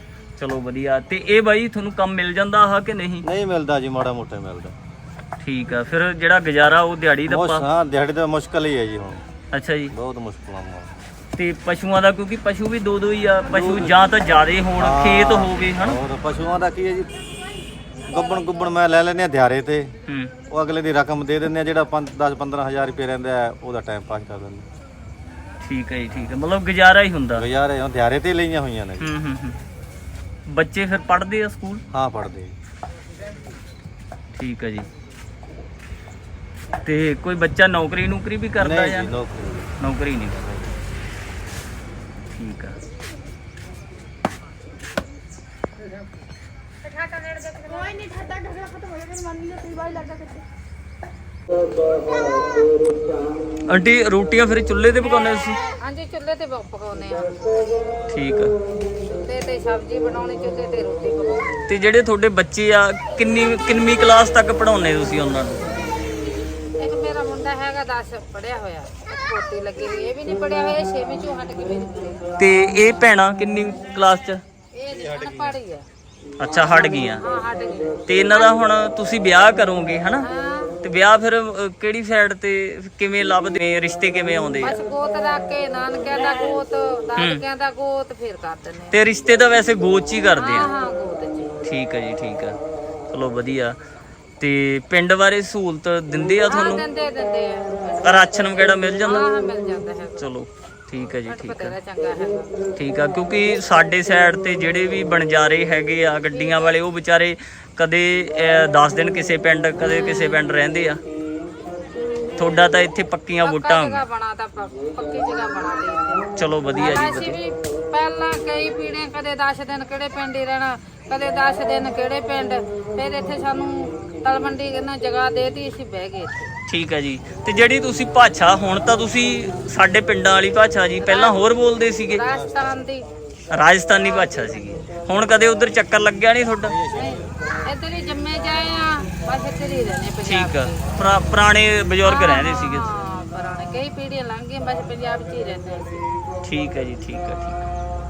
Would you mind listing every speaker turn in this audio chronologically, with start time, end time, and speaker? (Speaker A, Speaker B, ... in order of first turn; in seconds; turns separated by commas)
Speaker A: 0.4-3.3, Speaker B: 3.2-4.8, Speaker A: 5.4-7.6, Speaker B: 7.3-9.2, Speaker A: 9.5-9.9, Speaker B: 9.9-10.9, Speaker A: 11.4-16.0, Speaker B: 13.5-13.9, Speaker B: 14.8-17.1, Speaker B: 18.0-19.9, Speaker A: 20.1-20.3, Speaker B: 20.5-24.7, Speaker A: 25.6-27.4, Speaker B: 27.4-29.1, Speaker A: 29.0-29.6, Speaker A: 30.5-31.8, Speaker B: 31.9-32.5, Speaker A: 34.4-34.9, Speaker A: 36.8-39.1, Speaker B: 38.6-39.7, Speaker A: 39.8-40.5, Speaker A: 42.3-42.8, Speaker A: 53.7-55.6, Speaker C: 55.8-57.7, Speaker A: 58.1-58.5, Speaker C: 59.1-61.6, Speaker A: 61.7-65.7, Speaker C: 66.8-72.2, Speaker A: 72.4-74.4, Speaker C: 74.7-75.8, Speaker B: 75.0-75.6, Speaker A: 76.4-77.2, Speaker C: 77.2-78.0, Speaker A: 78.0-80.3, Speaker C: 80.2-80.8, Speaker A: 80.8-84.8, Speaker C: 84.6-89.0, Speaker A: 87.2-87.4, Speaker A: 88.9-90.7, Speaker C: 90.4-91.5, Speaker A: 91.6-92.6, Speaker A: 93.1-93.8, Speaker A: 94.4-96.8, Speaker C: 96.5-100.2, Speaker A: 98.0-99.3, Speaker A: 100.2-101.8, Speaker C: 101.3-102.6, Speaker A: 102.8-111.0, Speaker C: 106.3-106.8, Speaker A: 112.4-114.0, Speaker C: 113.4-126.5, Speaker A: 116.3-117.4, Speaker A: 126.7-132.2, Speaker C: 131.0-131.4, Speaker C: 132.1-133.1, Speaker B: 132.3-132.8, Speaker A: 133.5-136.8, Speaker B: 136.6-137.3, Speaker C: 136.9-140.9, Speaker A: 140.2-142.9, Speaker C: 142.1-146.0, Speaker A: 146.4-147.7